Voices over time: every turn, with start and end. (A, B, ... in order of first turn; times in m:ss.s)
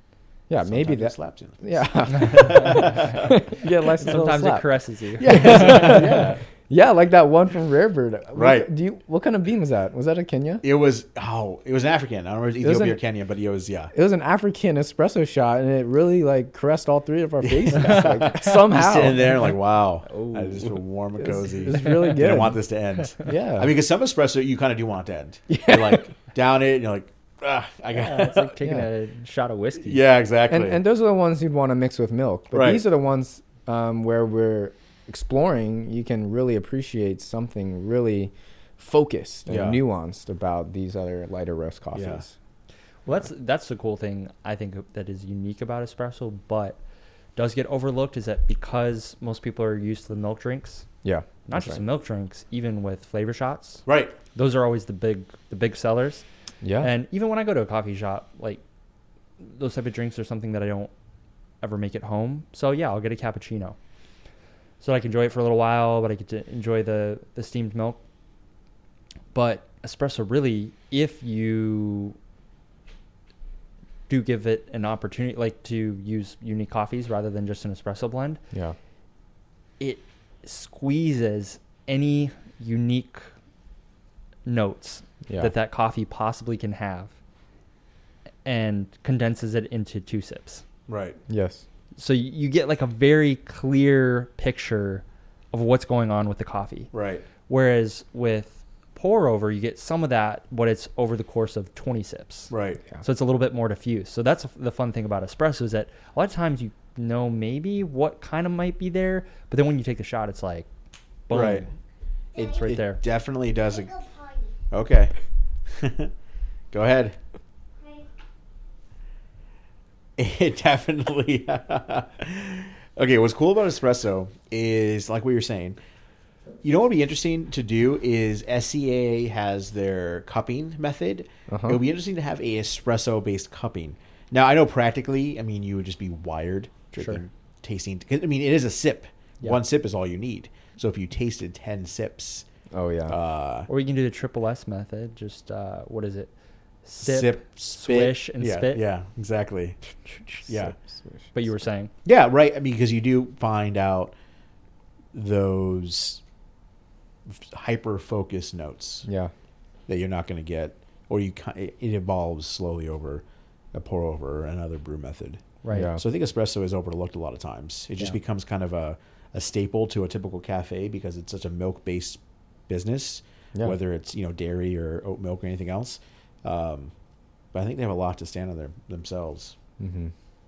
0:00.5-0:10.6 A
0:00.6-0:03.4 B
0:02.8-0:03.1 C
0:04.0-0:06.1 C
0:05.2-0:06.4 B
0:08.3-0:08.7 B
0:10.6-0:13.9 B
0:12.6-0:13.0 A
0:13.9-0:19.5 A
0:17.4-0:28.5 B
0:20.0-0:20.8 C
0:21.2-0:22.6 A
0:23.2-0:23.7 A
0:25.5-0:26.0 A
0:27.9-0:30.0 C
0:28.6-0:28.8 A
0:29.8-0:30.8 B
0:30.5-0:42.3 A
0:32.5-0:32.8 B
0:39.5-0:39.8 B
0:41.9-0:42.2 B
0:43.0-0:46.8 C
0:47.4-0:50.9 C
0:51.0-0:51.8 A
0:51.4-0:56.2 C
0:53.8-0:54.2 B
0:56.6-0:56.9 A
0:56.8-0:58.6 C
0:59.4-1:00.9 C
1:01.6-1:03.8 C
1:04.8-1:08.0 C
1:09.3-1:12.2 C
1:14.1-1:18.4 C
1:18.5-1:18.8 A
1:19.8-1:23.3 C
1:24.4-1:27.2 C
1:25.3-1:25.5 A
1:28.4-1:30.6 C
1:30.9-1:31.2 B
1:31.3-1:31.6 A
1:32.0-1:36.9 C
1:36.9-1:37.2 B
1:37.4-1:50.7 C
1:42.5-1:42.8 B
1:51.3-1:51.7 C
1:51.3-1:51.6 B
1:52.4-1:55.1 B
1:52.4-1:53.0 C
1:55.7-1:56.1 B
1:56.7-1:57.1 B
2:00.2-2:05.8 B
2:06.6-2:22.4 B
2:11.5-2:11.8 A
2:16.9-2:17.2 C
2:22.7-2:23.1 A
2:23.1-2:23.7 B
2:23.7-2:26.3 C
2:26.8-2:28.8 C
2:27.0-2:30.7 B
2:30.5-2:31.3 A
2:31.3-2:31.9 C
2:32.0-2:34.1 B
2:35.1-2:36.2 B
2:37.2-2:39.1 B
2:39.0-2:39.3 A
2:39.9-2:56.9 B
2:45.6-2:45.9 C
2:45.7-2:46.0 A
2:57.5-2:59.5 B
2:59.8-3:00.1 A